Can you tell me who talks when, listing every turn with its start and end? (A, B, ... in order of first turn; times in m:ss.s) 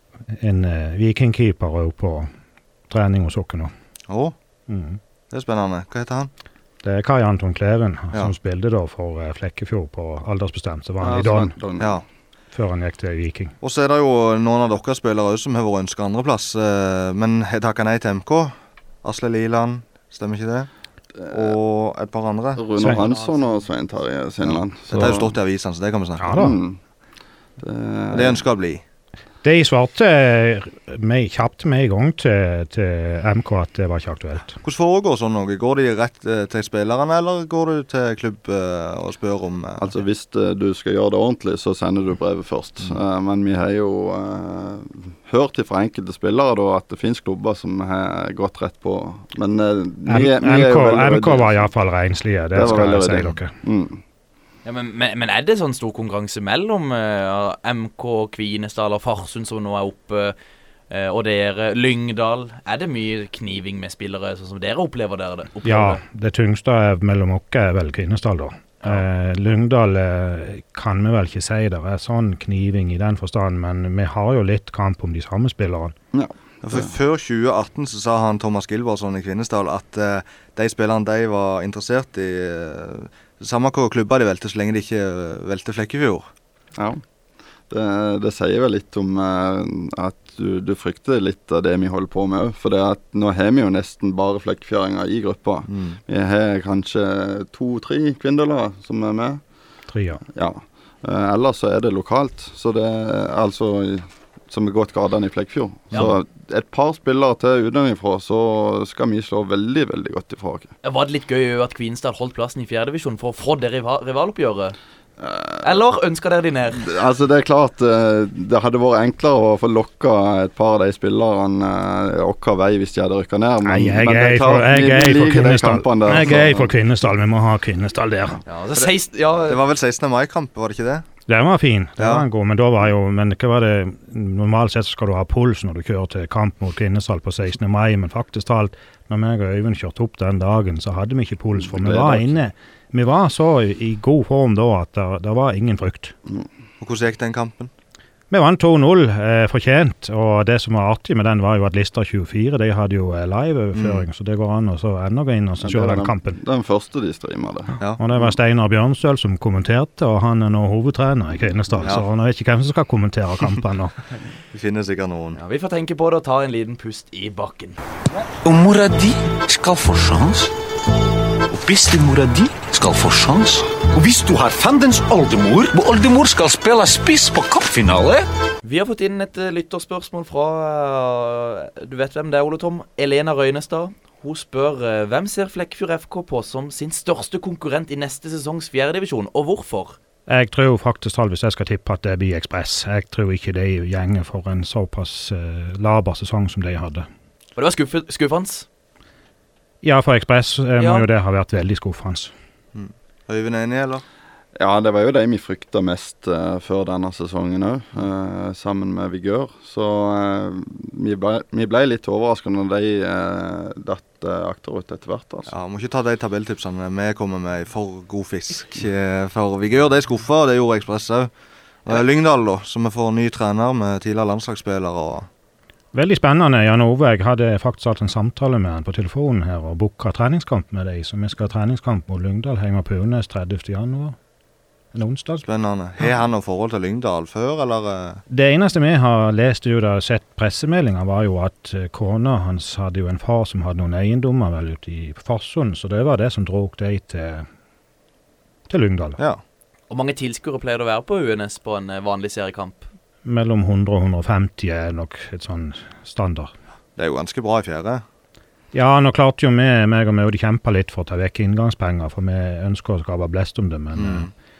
0:00.3-0:02.3 A
0:02.9-0:03.7 A
0:04.1-0:04.3 B
0:04.7-0:05.0 A
0:05.3-0:06.3 B
0:06.8-0:11.5 A
0:11.0-0:12.0 C
0:11.8-0:12.0 B
0:12.5-0:13.5 A
0:13.6-0:20.7 B
0:21.1-0:21.6 C
0:21.3-0:22.6 B
0:22.6-0:25.4 C
0:23.0-0:23.6 D
0:24.9-0:26.3 B
0:26.2-0:26.6 A
0:26.3-0:26.8 C
0:27.6-0:28.4 C
0:28.1-0:28.8 B
0:29.4-0:34.6 A
0:34.6-0:39.9 B
0:39.8-0:51.7 C
0:50.1-0:53.5 A
0:52.5-0:54.0 C
0:54.6-1:00.3 D
1:00.9-1:06.0 D
1:05.6-1:15.9 A
1:16.1-1:16.9 C
1:16.6-1:26.3 B
1:27.7-1:39.4 C
1:35.7-1:36.0 B
1:39.9-1:40.2 A
1:40.3-1:50.7 C
1:50.8-1:54.8 D
1:55.2-1:55.8 C
1:55.6-1:56.9 D
1:56.7-2:06.7 C
2:03.6-2:08.4 A
2:08.4-2:09.6 D
2:09.4-2:11.0 B
2:11.3-2:26.1 A
2:12.0-2:12.2 B
2:21.6-2:22.4 C
2:26.8-2:27.7 B
2:28.3-2:36.4 A
2:33.7-2:34.0 B
2:35.6-2:37.7 C
2:38.0-2:44.0 A
2:44.5-2:45.4 B
2:45.4-2:47.8 D
2:48.4-2:50.5 E
2:51.5-2:58.2 E
2:58.6-3:10.0 D
3:10.3-3:17.1 A
3:17.6-3:18.6 D
3:19.8-3:22.3 A
3:20.8-3:21.0 D
3:22.7-3:24.0 B
3:24.6-3:35.5 C
3:35.5-3:41.3 B
3:41.8-3:45.3 B
3:45.9-3:54.2 A
3:54.9-3:55.4 A
3:55.4-3:58.2 B
3:58.3-4:07.5 A
4:08.7-4:09.2 A
4:09.9-4:12.9 D
4:13.2-4:16.5 A
4:17.0-4:18.0 B
4:18.7-4:24.3 A
4:23.9-4:24.3 B